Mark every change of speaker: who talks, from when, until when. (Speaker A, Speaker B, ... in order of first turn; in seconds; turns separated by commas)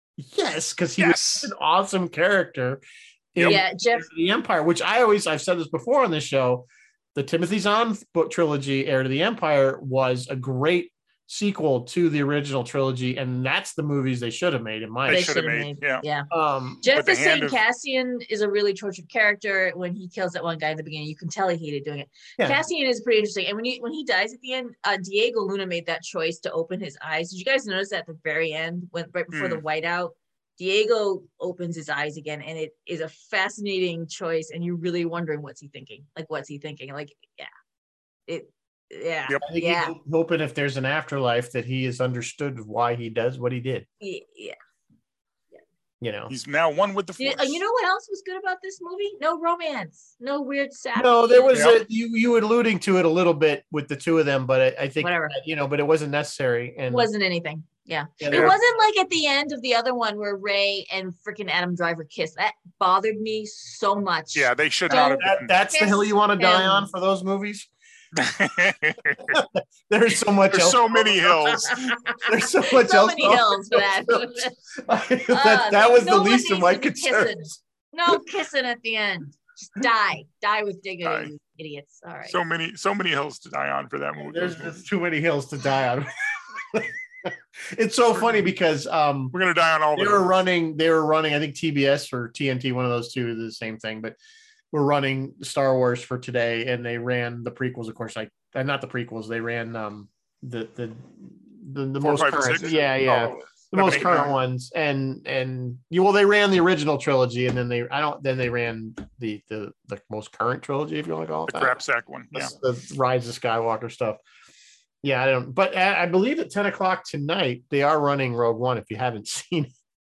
Speaker A: 0.2-2.8, Speaker B: 1.0-1.5, Speaker A: 3.3-15.3, Speaker B: 3.4-3.6, Speaker C: 3.4-4.1, Speaker B: 15.1-16.0, Speaker C: 15.1-16.3, Speaker A: 16.3-16.8, Speaker C: 16.8-37.5, Speaker B: 16.9-17.6, Speaker A: 22.4-22.6, Speaker B: 29.3-29.6, Speaker C: 38.3-40.0, Speaker A: 39.4-43.9, Speaker C: 44.0-44.6, Speaker A: 46.0-46.3, Speaker B: 46.3-47.6, Speaker C: 47.2-51.6, Speaker A: 51.0-57.1, Speaker B: 51.5-51.8, Speaker C: 55.0-55.4, Speaker C: 56.9-66.9, Speaker A: 58.2-58.7, Speaker B: 58.3-58.6, Speaker B: 64.3-65.5, Speaker A: 64.9-67.7, Speaker B: 68.2-69.4, Speaker A: 69.3-77.5, Speaker B: 70.5-72.0, Speaker C: 71.7-74.6, Speaker C: 75.3-82.3, Speaker B: 81.0-81.3, Speaker B: 82.3-84.8, Speaker A: 84.2-89.3, Speaker B: 89.3-90.3, Speaker A: 90.0-94.2, Speaker A: 94.7-111.8, Speaker B: 102.0-104.3, Speaker B: 111.5-112.5, Speaker A: 112.3-114.2, Speaker A: 115.0-119.7